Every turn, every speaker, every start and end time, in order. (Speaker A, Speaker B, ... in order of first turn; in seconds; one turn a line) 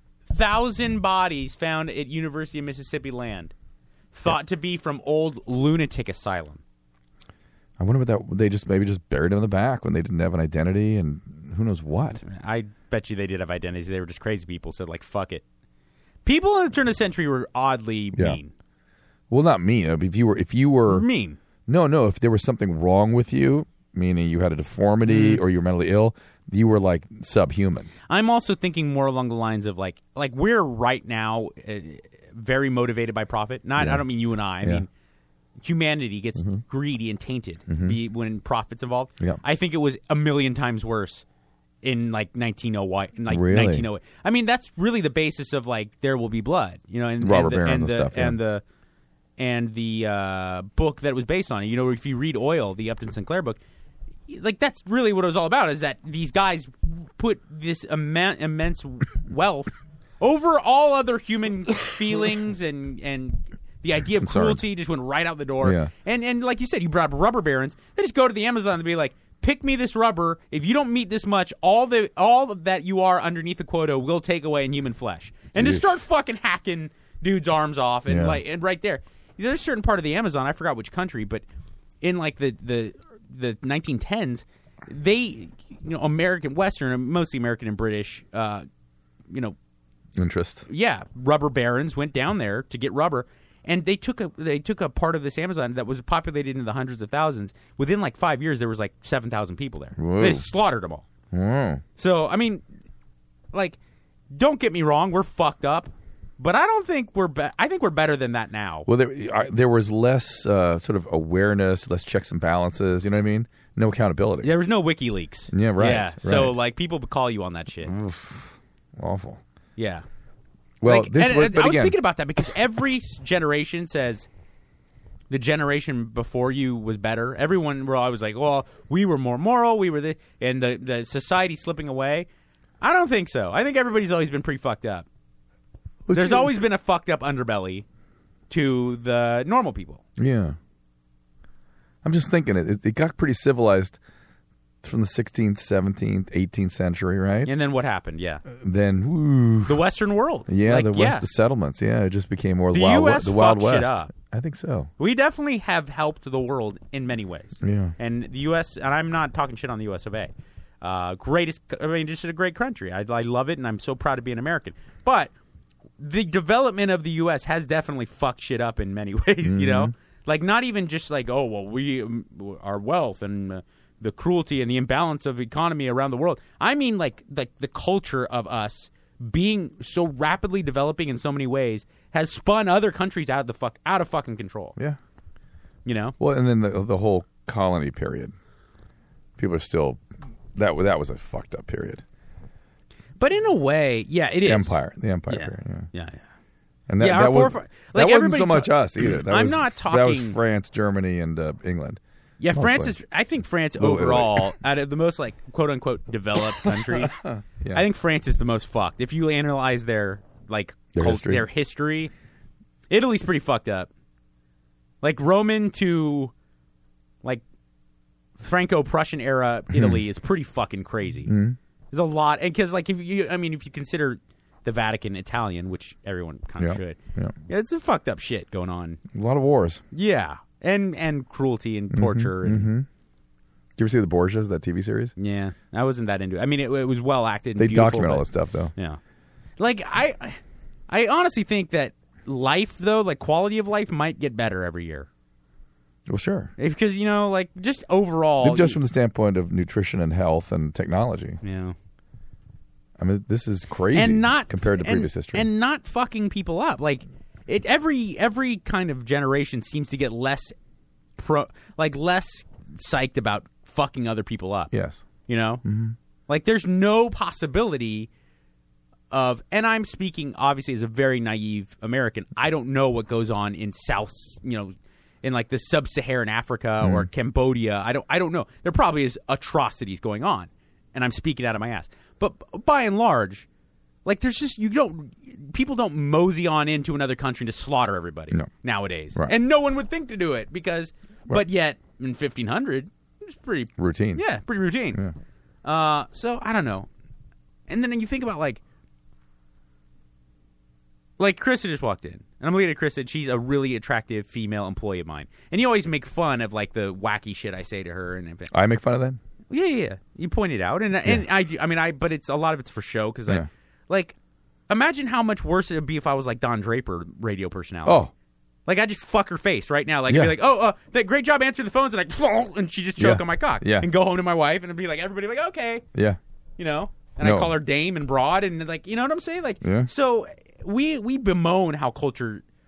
Speaker A: 0.3-3.5
Speaker A: 4.1-6.6
Speaker B: 7.8-12.2
Speaker A: 12.2-15.4
Speaker A: 16.2-18.5
Speaker B: 18.1-18.4
Speaker B: 19.3-21.0
Speaker A: 20.9-21.4
Speaker B: 21.7-27.9
Speaker A: 25.1-25.4
Speaker A: 28.1-34.9
Speaker B: 33.8-34.8
Speaker A: 35.6-41.2
Speaker B: 36.4-36.6
Speaker B: 37.7-38.0
Speaker A: 41.8-48.6
Speaker B: 43.3-43.9
Speaker B: 47.2-48.4
Speaker A: 49.4-53.6
Speaker A: 54.3-81.4
Speaker B: 64.1-64.6
Speaker B: 65.6-65.9
Speaker B: 75.5-75.8
Speaker B: 78.1-78.4
Speaker A: 82.0-88.7
Speaker A: 89.3-89.5
Speaker B: 90.2-90.6
Speaker A: 90.7-101.0
Speaker B: 100.0-100.5
Speaker B: 101.3-101.8
Speaker A: 102.0-102.6
Speaker A: 104.3-108.9
Speaker B: 108.9-114.5
Speaker A: 114.4-117.9
Speaker B: 115.5-116.5
Speaker B: 117.8-119.4
Speaker A: 119.8-120.0
Speaker B: 120.8-122.0
Speaker A: 120.8-124.3
Speaker A: 125.3-132.3
Speaker A: 132.8-135.1
Speaker B: 136.1-136.5
Speaker A: 136.1-137.8
Speaker A: 138.5-140.0
Speaker B: 140.2-140.6
Speaker B: 142.0-144.0
Speaker B: 144.8-147.5
Speaker A: 147.4-148.4
Speaker B: 148.5-149.8
Speaker A: 149.7-151.2
Speaker B: 150.5-154.9
Speaker A: 152.7-154.1
Speaker A: 155.0-165.3
Speaker B: 157.6-157.9
Speaker A: 166.0-184.8
Speaker B: 169.4-169.9
Speaker A: 185.8-186.2
Speaker B: 186.2-188.3
Speaker B: 189.4-190.0
Speaker B: 190.5-192.0
Speaker A: 193.2-196.2
Speaker B: 194.4-195.9
Speaker B: 196.9-202.0
Speaker A: 197.0-200.4
Speaker A: 202.4-207.2
Speaker B: 202.5-203.0
Speaker B: 203.8-204.5
Speaker B: 206.6-207.8
Speaker A: 207.7-212.1
Speaker B: 210.9-211.5
Speaker A: 212.9-213.9
Speaker A: 215.0-216.3
Speaker A: 218.4-221.3
Speaker B: 219.7-220.0
Speaker B: 221.2-221.6
Speaker A: 221.9-227.0
Speaker B: 226.6-227.3
Speaker A: 227.5-229.0
Speaker B: 229.1-229.8
Speaker A: 229.9-232.7
Speaker B: 231.9-232.9
Speaker B: 233.8-235.1
Speaker A: 235.2-239.0
Speaker B: 237.6-238.7
Speaker A: 239.6-245.1
Speaker B: 246.1-246.5
Speaker A: 246.6-248.8
Speaker B: 248.4-251.4
Speaker A: 251.4-251.7
Speaker B: 253.0-255.5
Speaker A: 253.9-260.5
Speaker A: 261.2-264.7
Speaker B: 264.7-265.0
Speaker A: 265.3-265.6
Speaker B: 265.6-265.9
Speaker A: 266.3-268.1
Speaker A: 269.1-283.4
Speaker B: 276.8-277.1
Speaker A: 284.0-295.0
Speaker B: 293.8-294.2
Speaker A: 295.6-296.9
Speaker A: 297.7-298.6
Speaker A: 301.2-308.5
Speaker B: 308.5-309.2
Speaker A: 309.5-314.1
Speaker A: 314.7-318.0
Speaker B: 317.9-318.1
Speaker A: 318.6-325.8
Speaker B: 320.1-320.4
Speaker B: 323.0-323.9
Speaker B: 325.9-326.2
Speaker A: 326.6-332.4
Speaker B: 327.2-327.5
Speaker B: 329.6-329.9